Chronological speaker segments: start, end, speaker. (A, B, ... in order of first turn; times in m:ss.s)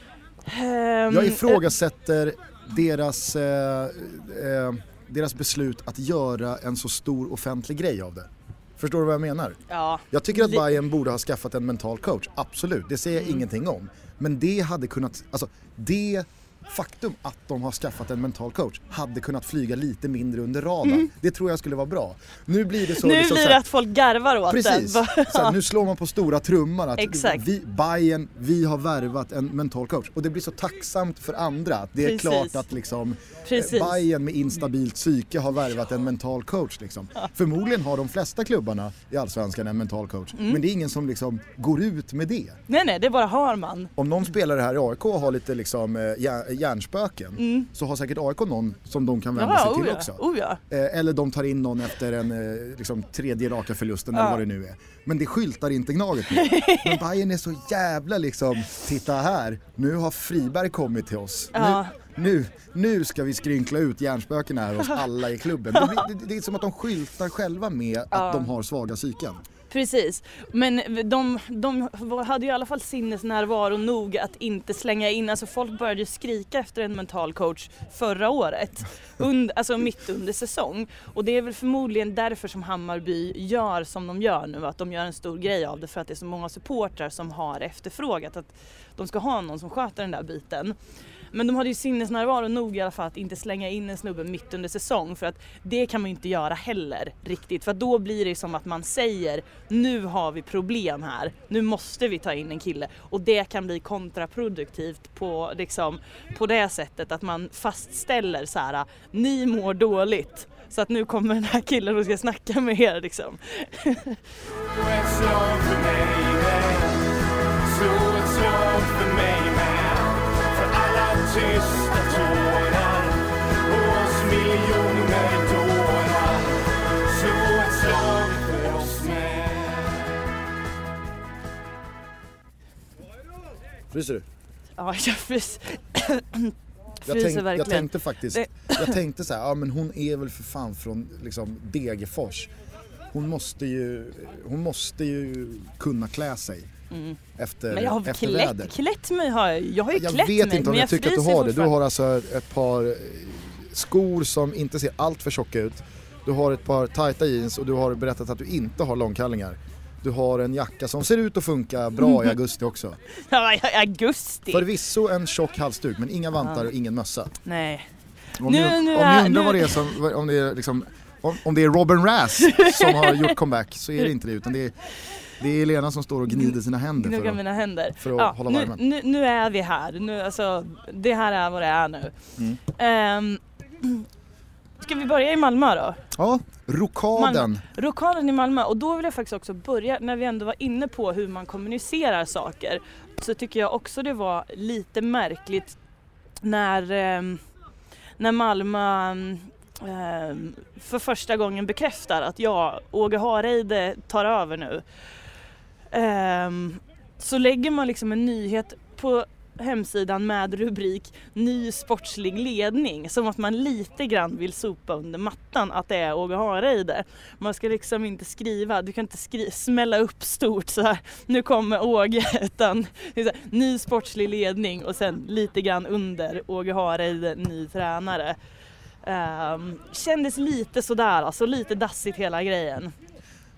0:00.4-0:01.6 A
0:01.1-0:09.6 B
0:09.7-0:10.7 A
0:10.1-0:23.6 B
0:22.9-0:25.6 A
0:24.5-0:42.6 B
0:27.0-0:27.4 A
0:32.0-0:32.6 A
0:33.5-0:34.0 A
0:40.4-0:40.6 A
0:42.7-0:43.9 A
0:44.0-1:09.4 B
0:47.4-0:47.7 A
0:49.4-0:50.6 A
0:54.1-0:54.4 A
0:56.3-0:57.0 A
1:01.5-1:01.9 A
1:05.8-1:06.0 A
1:08.1-1:08.5 A
1:09.7-1:30.8 A
1:31.3-1:54.2 A
1:54.6-2:10.2 C
2:13.9-2:14.2 B
2:14.8-2:19.0 A
2:17.0-2:22.5 B
2:23.1-2:26.7 B
2:26.9-2:27.2 A
2:27.4-2:28.7 B
2:27.7-2:31.7 A
2:29.9-2:43.0 B
2:43.3-2:44.6 A
2:44.5-2:47.3 B
2:47.4-2:47.9 A
2:48.4-2:54.7 B
2:48.4-2:49.8 A
2:52.4-2:53.3 A
2:55.4-2:57.4 B
2:56.3-3:02.2 A
2:58.0-2:58.8 B
3:02.7-3:04.0 A
3:04.8-3:06.0 A
3:06.1-3:07.6 B
3:07.2-3:15.8 A
3:16.4-3:17.4 A
3:18.2-3:24.8 A
3:25.9-3:48.4 A
3:49.0-3:52.9 A